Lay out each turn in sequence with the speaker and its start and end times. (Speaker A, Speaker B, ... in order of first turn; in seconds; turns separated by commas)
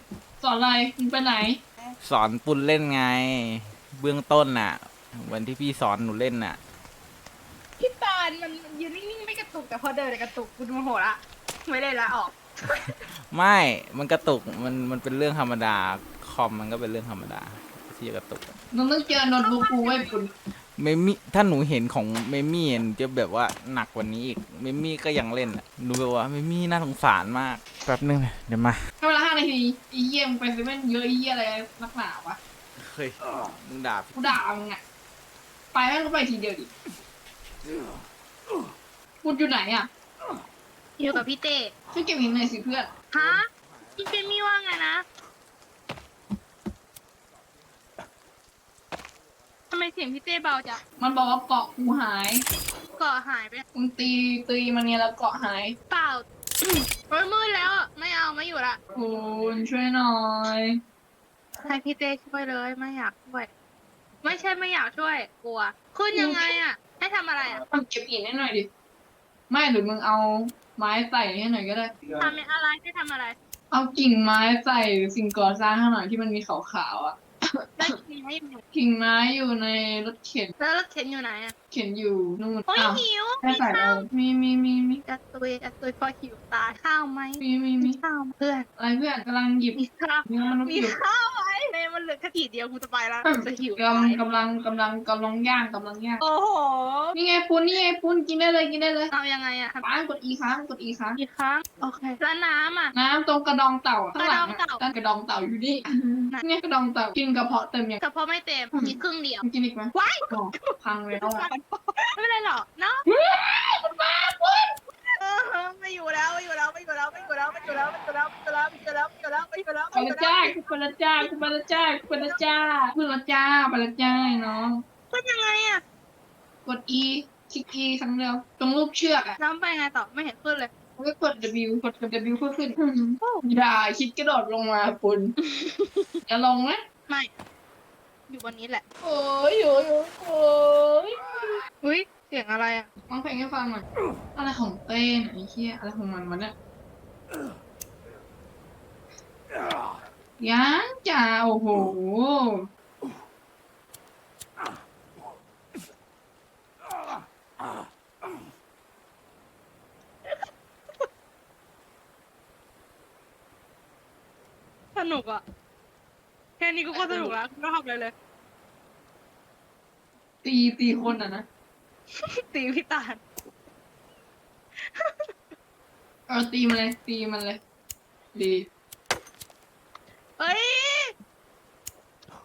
Speaker A: 0.4-1.6, Speaker B: 2.0-6.6, Speaker C: 7.8-13.0, Speaker B: 13.3-18.5, Speaker A: 18.7-20.3, Speaker C: 19.4-20.1, Speaker B: 20.8-28.8, Speaker A: 29.0-32.4, Speaker B: 32.8-34.2, Speaker A: 34.1-34.8, Speaker A: 35.7-36.7, Speaker A: 39.2-39.9, Speaker C: 41.0-41.7, Speaker A: 41.9-42.9, Speaker C: 43.1-45.0, Speaker C: 49.7-50.8, Speaker A: 51.0-52.5, Speaker C: 53.0-53.6, Speaker A: 53.7-55.8, Speaker C: 55.9-58.8, Speaker A: 58.9-60.8, Speaker C: 61.6-63.5, Speaker C: 64.2-67.6, Speaker A: 66.1-66.5, Speaker A: 67.7-68.7, Speaker A: 69.5-72.0, Speaker C: 72.2-73.4, Speaker A: 73.7-77.9, Speaker C: 77.8-78.6, Speaker A: 78.7-80.5, Speaker C: 80.6-81.5, Speaker A: 81.7-85.0, Speaker C: 82.7-84.1, Speaker C: 85.1-88.7, Speaker A: 87.4-88.0, Speaker A: 88.8-91.0, Speaker C: 89.8-94.2, Speaker A: 93.2-96.2, Speaker C: 96.2-97.2, Speaker A: 97.2-99.1, Speaker C: 99.1-99.8, Speaker A: 99.8-101.2, Speaker C: 101.2-102.9, Speaker A: 102.9-108.0, Speaker C: 104.2-104.9, Speaker C: 108.0-113.1, Speaker A: 108.8-111.5, Speaker A: 113.1-114.7, Speaker C: 115.0-120.6, Speaker A: 119.9-124.8, Speaker C: 121.2-121.5, Speaker C: 122.1-122.4, Speaker C: 125.1-125.8, Speaker A: 126.7-129.4, Speaker C: 129.4-130.7, Speaker A: 131.0-135.3, Speaker C: 135.4-136.2, Speaker A: 136.3-136.8, Speaker C: 138.3-138.8, Speaker A: 139.0-141.6, Speaker C: 141.8-142.9, Speaker A: 143.1-143.8, Speaker A: 144.4-146.5, Speaker A: 150.4-152.7, Speaker C: 164.9-165.4, Speaker C: 166.6-168.1, Speaker A: 166.9-167.3, Speaker A: 170.4-171.4, Speaker C: 172.2-173.2, Speaker C: 174.8-175.3, Speaker A: 176.3-177.6, Speaker A: 178.3-178.7, Speaker C: 180.4-181.1